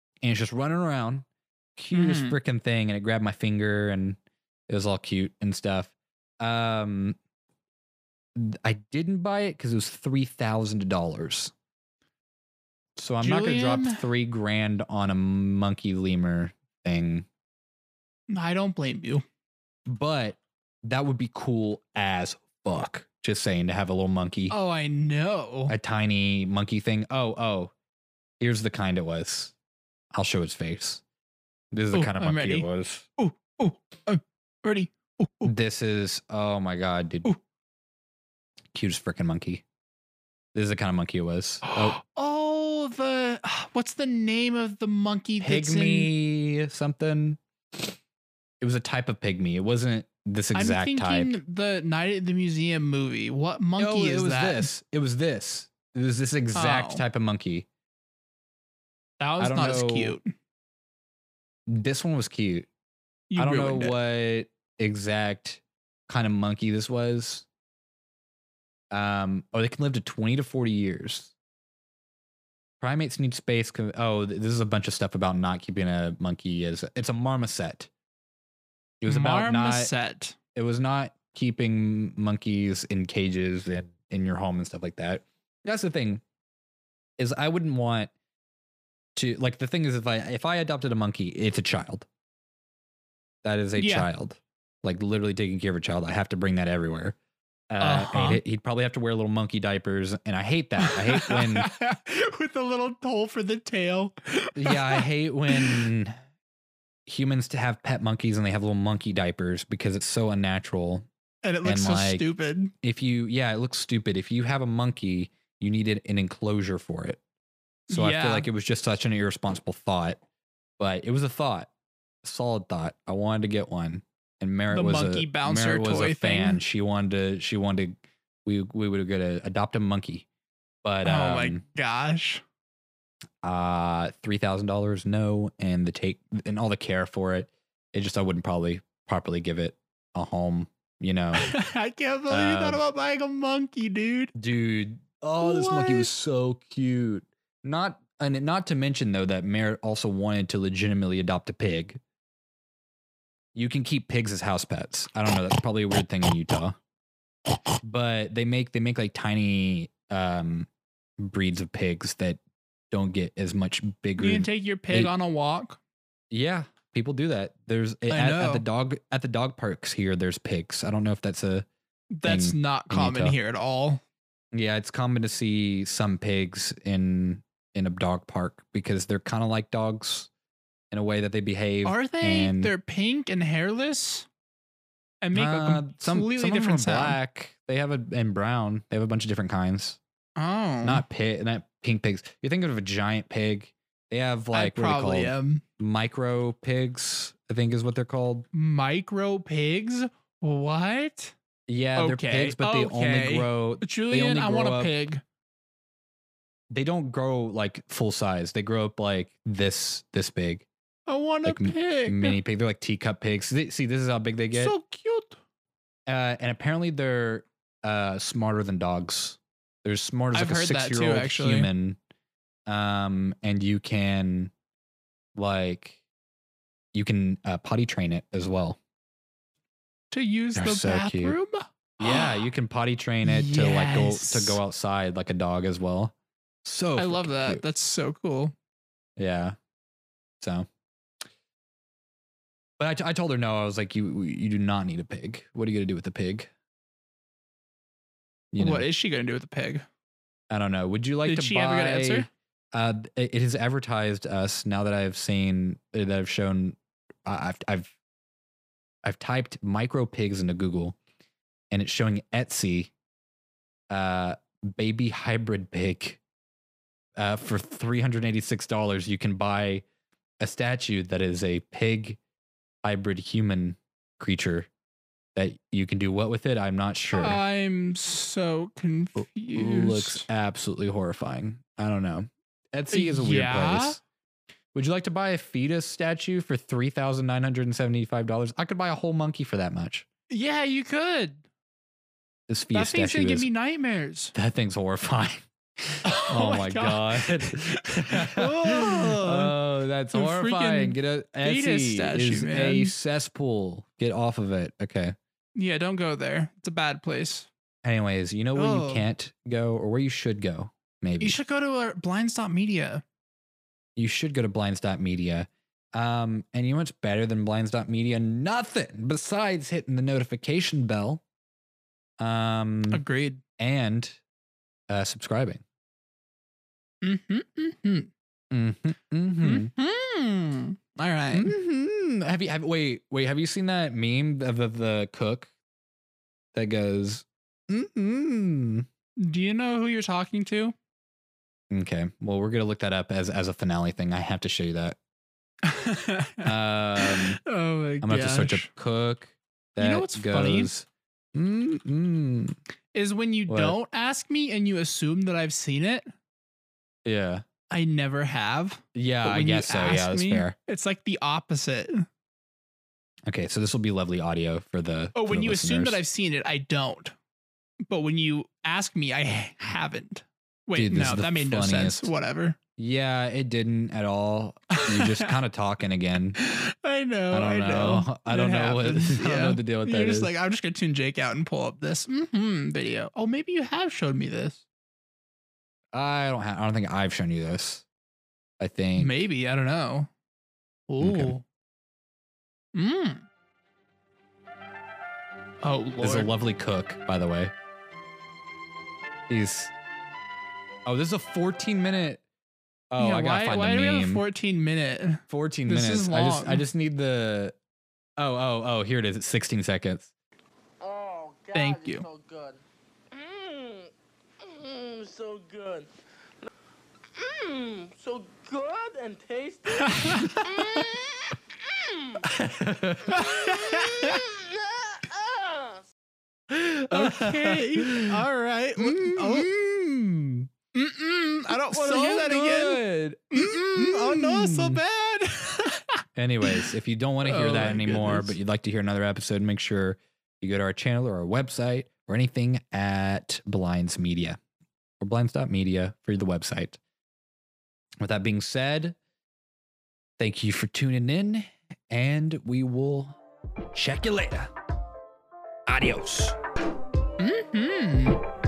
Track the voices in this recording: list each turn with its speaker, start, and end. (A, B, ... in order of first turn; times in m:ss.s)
0:00.2-0:07.2 A
0:01.9-0:02.4 B
0:08.4-0:11.5 A
0:13.0-0:17.3 A
0:13.2-0:14.0 B
0:18.3-0:19.2 B
0:19.9-0:24.6 A
0:24.5-0:25.7 B
0:25.7-0:27.7 A
0:28.4-0:29.5 A
0:30.1-0:31.0 A
0:31.7-0:33.1 A
0:31.9-0:35.5 B
0:35.4-0:37.4 A
0:38.7-0:39.6 A
0:40.6-0:42.0 A
0:41.8-0:46.1 B
0:45.4-0:47.9 A
0:48.6-0:51.4 A
0:50.5-0:54.7 B
0:53.8-0:57.7 A
0:56.5-0:57.0 B
0:59.2-1:00.3 B
0:59.4-1:00.2 A
1:01.7-1:02.7 A
1:03.3-1:04.0 B
1:03.4-1:07.5 A
1:08.9-1:11.3 A
1:12.8-1:17.9 A
1:19.0-1:19.9 A
1:19.1-1:20.4 B
1:20.5-1:26.2 A
1:27.2-1:28.1 A
1:29.2-1:32.1 A
1:33.4-1:37.2 A
1:33.8-1:34.1 B
1:37.7-1:41.7 A
1:37.8-1:38.4 B
1:40.8-1:45.9 B
1:44.6-1:46.2 A
1:47.1-1:51.1 A
1:51.4-1:52.7 B
1:51.6-1:52.2 A
1:52.8-1:57.2 A
1:57.9-1:58.5 B
1:57.9-2:00.2 A
2:00.8-2:01.7 A
2:02.2-2:10.3 A
2:04.7-2:06.6 B
2:10.8-2:11.6 A
2:11.0-2:12.4 B
2:13.4-2:21.5 A
2:21.4-2:24.3 B
2:22.3-2:22.8 A
2:24.4-2:32.0 A
2:25.4-2:26.1 B
2:33.6-2:36.8 A
2:37.8-2:40.7 A
2:41.2-2:42.4 A
2:42.9-2:45.1 A
2:44.2-2:45.8 B
2:46.3-2:51.7 A
2:48.1-2:48.6 B
2:52.2-2:54.0 B
2:52.2-2:53.4 A
2:54.5-3:00.3 A
3:00.9-3:02.7 A
3:01.8-3:04.3 B
3:05.2-3:07.2 B
3:05.3-3:10.0 A
3:10.4-3:11.0 B
3:10.8-3:18.5 A
3:14.5-3:15.6 B
3:18.5-3:21.3 B
3:21.7-3:24.9 A
3:22.0-3:25.2 B
3:26.7-3:30.7 A
3:31.1-3:32.4 B
3:31.4-3:34.8 A
3:34.5-3:35.4 B
3:36.1-3:42.0 A
3:40.3-3:41.7 B
3:42.7-3:44.5 A
3:45.4-3:46.0 A
3:46.9-3:48.8 A
3:50.1-3:52.4 B
3:50.6-3:51.4 A
3:52.0-3:57.7 A
3:53.2-3:54.6 B
3:57.0-3:58.5 B
3:59.2-3:59.6 A
4:00.4-4:00.7 A
4:02.8-4:06.5 A
4:08.5-4:08.9 A
4:08.6-4:09.8 B
4:10.5-4:18.0 A
4:11.3-4:12.3 B
4:19.0-4:21.0 A
4:21.7-4:22.9 A
4:23.9-4:26.2 A
4:27.2-4:29.8 A
4:30.4-4:32.2 A
4:32.8-4:34.7 A
4:35.4-4:37.4 A
4:37.1-4:40.3 B
4:39.2-4:44.0 A
4:42.9-4:44.0 B
4:44.7-4:50.1 A
4:50.3-4:51.4 B
4:52.5-4:53.5 A
4:52.7-4:54.3 B
4:54.3-5:05.2 A
4:56.0-4:59.6 B
5:00.1-5:02.9 B
5:05.6-5:07.5 B
5:07.8-5:11.4 A
5:08.5-5:09.1 B
5:11.2-5:13.0 B
5:14.0-5:21.2 A
5:22.2-5:23.0 A
5:22.9-5:23.4 B
5:23.6-5:24.2 A
5:24.9-5:25.6 A
5:27.0-5:28.1 B
5:28.5-5:29.7 A
5:29.4-5:31.5 B
5:31.3-5:35.5 A
5:36.5-5:38.9 A
5:39.2-5:40.8 B
5:41.7-5:45.0 A
5:45.6-5:48.7 B
5:46.4-5:47.4 A
5:48.0-5:52.6 A
5:49.8-5:50.7 B
5:52.9-5:56.1 B
5:53.5-5:53.8 A
5:57.0-5:57.4 A
5:57.7-6:02.1 B
5:58.9-6:00.6 A
6:03.3-6:06.0 A
6:05.2-6:07.2 B
6:07.8-6:12.6 B
6:10.8-6:12.1 A
6:12.8-6:16.4 A
6:14.7-6:15.4 B
6:16.4-6:24.6 B
6:17.3-6:20.3 A
6:25.9-6:27.9 A
6:28.6-6:29.1 A
6:29.0-6:30.1 B
6:30.9-6:31.4 B
6:31.0-6:31.4 A
6:32.7-6:33.3 B
6:35.6-6:36.3 B
6:36.0-6:37.5 A
6:39.3-6:39.7 A
6:40.9-6:42.2 A
6:42.9-6:44.2 A
6:43.0-6:46.6 B
6:45.3-6:47.6 A
6:48.2-6:50.1 A
6:50.8-6:52.6 C
6:51.5-6:52.1 B
6:53.1-6:55.9 C
6:57.2-7:02.2 C
6:59.8-7:00.8 B
7:02.3-7:03.2 A
7:03.0-7:05.8 C
7:03.1-7:04.2 B
7:06.5-7:08.2 A
7:06.9-7:09.5 B
7:08.8-7:10.5 A
7:10.7-7:16.7 B
7:11.5-7:14.8 A
7:16.2-7:24.4 A
7:17.2-7:18.4 B
7:25.0-7:26.8 A
7:28.0-7:29.0 A
7:30.2-7:33.2 A
7:33.7-7:34.5 A
7:35.7-7:36.4 A
7:37.2-7:38.2 B